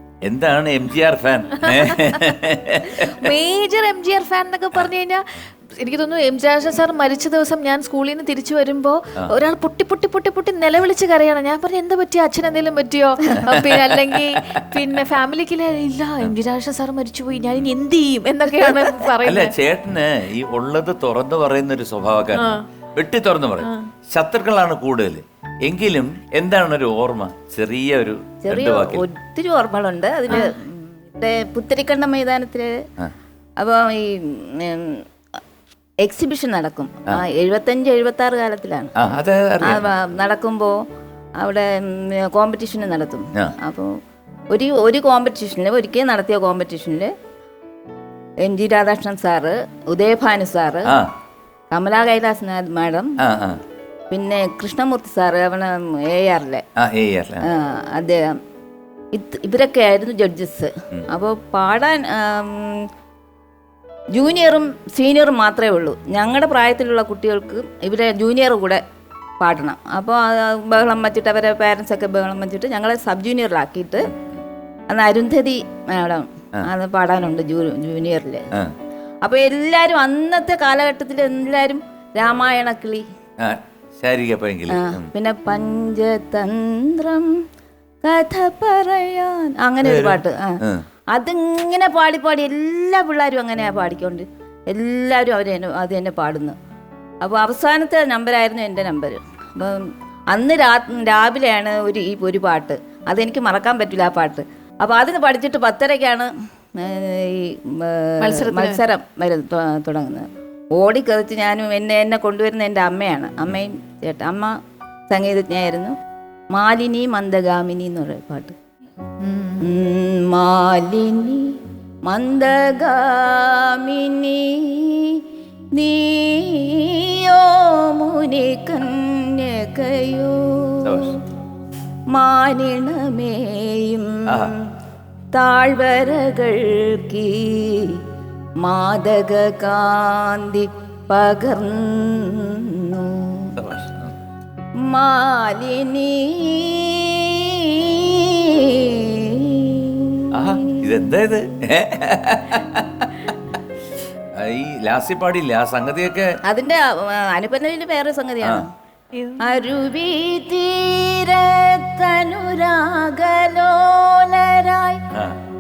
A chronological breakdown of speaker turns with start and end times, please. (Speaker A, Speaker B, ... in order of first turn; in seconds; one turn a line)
Speaker A: 0.2-3.3
Speaker B: 1.7-2.3
Speaker B: 2.9-19.5
Speaker A: 13.4-14.8
Speaker A: 19.2-29.1
Speaker B: 22.4-22.6
Speaker B: 23.6-23.9
Speaker C: 28.4-32.7
Speaker B: 30.3-30.6
Speaker C: 33.6-35.0
Speaker C: 36.0-38.9
Speaker A: 39.0-39.8
Speaker C: 39.6-40.8
Speaker C: 41.4-43.9
Speaker C: 44.5-47.1
Speaker C: 48.4-50.9
Speaker C: 51.7-53.2
Speaker A: 53.2-53.6
Speaker C: 54.1-56.6
Speaker A: 56.8-57.5
Speaker C: 57.4-58.3
Speaker C: 59.1-62.9
Speaker C: 64.2-68.8
Speaker C: 69.4-74.1
Speaker C: 74.9-78.5
Speaker C: 79.2-83.0
Speaker A: 83.4-85.1
Speaker C: 84.7-87.3
Speaker C: 88.0-90.6
Speaker A: 89.8-90.8
Speaker C: 91.1-96.5
Speaker C: 97.2-114.5
Speaker B: 108.2-108.8
Speaker C: 115.1-116.0
Speaker C: 116.5-118.6
Speaker B: 119.2-119.7
Speaker C: 119.6-125.2
Speaker C: 125.8-131.2
Speaker A: 130.8-131.2
Speaker C: 132.1-134.6
Speaker A: 134.3-134.6
Speaker C: 135.3-138.0
Speaker C: 138.6-143.5
Speaker A: 143.6-144.1
Speaker C: 144.8-151.0
Speaker A: 150.3-153.4
Speaker A: 154.4-156.3
Speaker C: 156.4-158.7
Speaker B: 159.1-159.4
Speaker C: 159.4-165.0